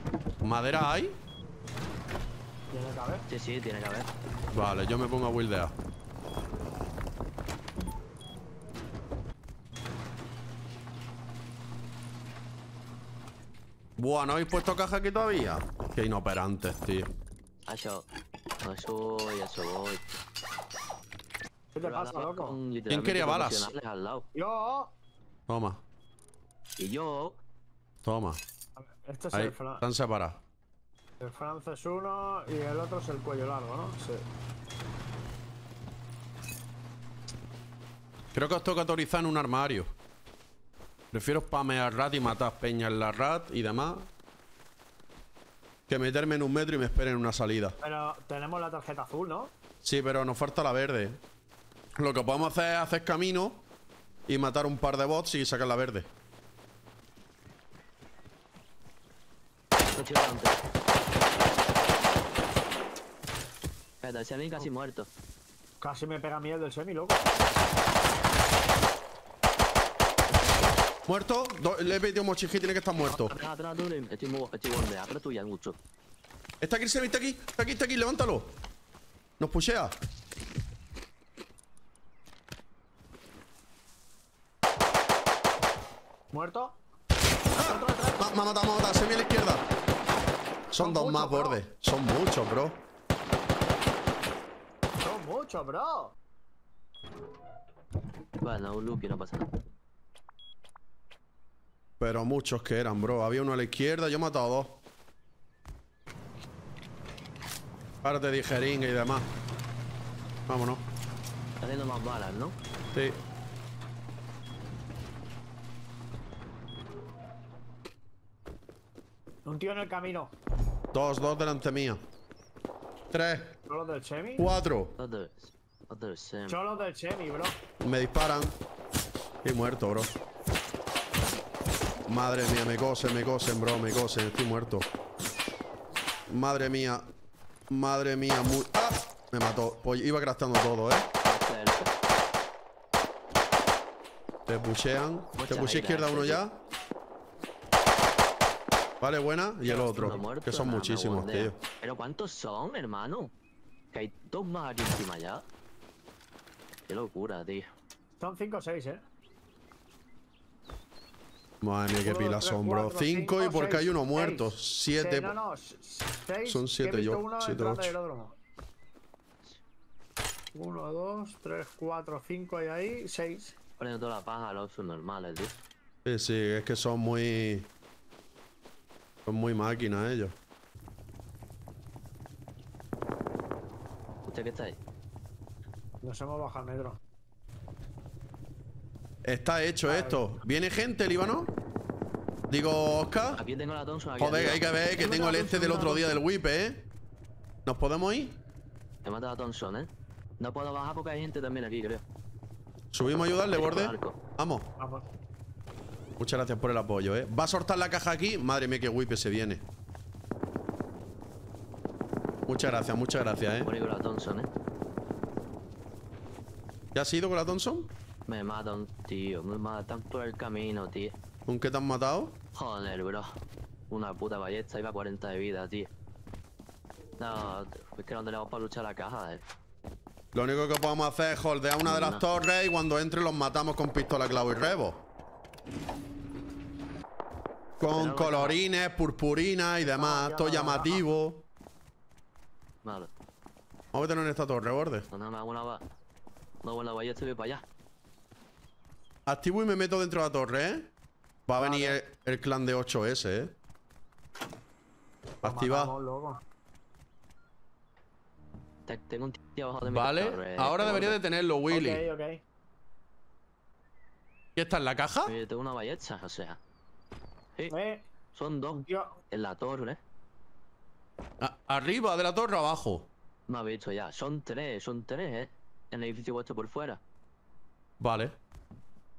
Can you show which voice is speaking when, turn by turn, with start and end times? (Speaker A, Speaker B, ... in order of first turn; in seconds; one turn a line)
Speaker A: 0.4-1.2
Speaker B: 2.7-3.2
Speaker C: 3.3-4.1
Speaker A: 4.5-5.7
Speaker A: 14.0-17.1
Speaker C: 17.7-18.1
Speaker C: 18.6-20.0
Speaker B: 21.8-22.6
Speaker C: 21.8-24.3
Speaker A: 22.9-23.7
Speaker B: 24.4-24.9
Speaker A: 25.5-25.8
Speaker C: 26.8-27.4
Speaker A: 28.0-28.4
Speaker B: 28.8-29.8
Speaker A: 29.3-30.4
Speaker B: 31.2-34.2
Speaker A: 38.3-39.9
Speaker A: 41.1-44.1
Speaker A: 45.9-47.8
Speaker B: 47.8-49.5
Speaker A: 49.8-51.2
Speaker A: 52.0-53.6
Speaker A: 54.3-56.1
Speaker C: 60.0-60.6
Speaker C: 64.0-65.1
Speaker B: 65.8-67.2
Speaker A: 71.1-73.3
Speaker C: 73.1-75.8
Speaker A: 76.6-78.6
Speaker A: 79.4-80.0
Speaker B: 86.3-86.8
Speaker B: 87.5-88.2
Speaker A: 87.5-89.7
Speaker A: 90.7-92.8
Speaker B: 90.8-91.6
Speaker B: 95.0-96.1
Speaker C: 98.4-99.5
Speaker A: 102.0-104.8
Speaker A: 108.0-109.3
Speaker A: 110.5-110.8
Speaker C: 111.6-112.6
Speaker A: 112.9-113.2
Speaker B: 119.5-120.3
Speaker A: 120.9-122.0
Speaker A: 123.1-123.6
Speaker B: 123.7-124.5
Speaker A: 124.4-124.9
Speaker C: 125.0-126.6
Speaker B: 126.5-127.6
Speaker A: 127.8-128.6
Speaker A: 129.4-130.1
Speaker A: 132.1-134.9
Speaker A: 136.3-137.1
Speaker A: 137.7-141.1
Speaker C: 141.2-141.9
Speaker A: 144.5-146.6
Speaker C: 145.4-146.4
Speaker A: 149.0-151.6
Speaker C: 149.7-153.3
Speaker C: 153.9-155.4
Speaker C: 156.9-157.7
Speaker B: 158.2-159.0
Speaker A: 161.6-165.4
Speaker B: 162.0-168.3
Speaker A: 166.4-167.9
Speaker B: 170.5-173.6
Speaker C: 173.8-175.6
Speaker A: 176.1-177.7
Speaker A: 179.3-180.4
Speaker C: 184.3-184.8
Speaker B: 186.0-187.0
Speaker A: 189.2-191.5
Speaker B: 189.9-190.3
Speaker A: 192.5-193.4
Speaker C: 193.3-196.1
Speaker A: 194.2-196.9
Speaker B: 195.0-196.0
Speaker A: 197.7-198.4
Speaker C: 199.0-202.0
Speaker A: 202.9-204.7
Speaker C: 203.5-204.2
Speaker B: 204.8-205.1
Speaker A: 206.2-209.7
Speaker A: 212.5-213.7
Speaker C: 213.6-214.5
Speaker A: 216.9-217.9
Speaker C: 218.3-221.2
Speaker A: 221.5-222.4
Speaker C: 222.5-223.4
Speaker C: 223.9-225.9
Speaker C: 227.2-229.4
Speaker A: 230.3-235.1
Speaker C: 231.8-232.2
Speaker A: 237.8-241.5
Speaker C: 237.8-238.6
Speaker B: 239.8-241.0
Speaker C: 242.8-243.1
Speaker A: 243.9-245.1
Speaker C: 245.1-245.8
Speaker C: 246.6-247.7
Speaker A: 249.3-250.9
Speaker A: 251.5-253.6
Speaker B: 251.6-252.0
Speaker A: 255.4-255.9
Speaker B: 255.4-256.4
Speaker C: 258.9-261.2
Speaker A: 259.8-262.1
Speaker B: 261.7-262.4
Speaker A: 264.6-265.3
Speaker C: 265.3-266.6
Speaker B: 267.7-268.0
Speaker C: 268.3-270.0
Speaker B: 268.7-269.2
Speaker A: 271.4-273.1
Speaker C: 273.5-277.0
Speaker A: 278.0-278.4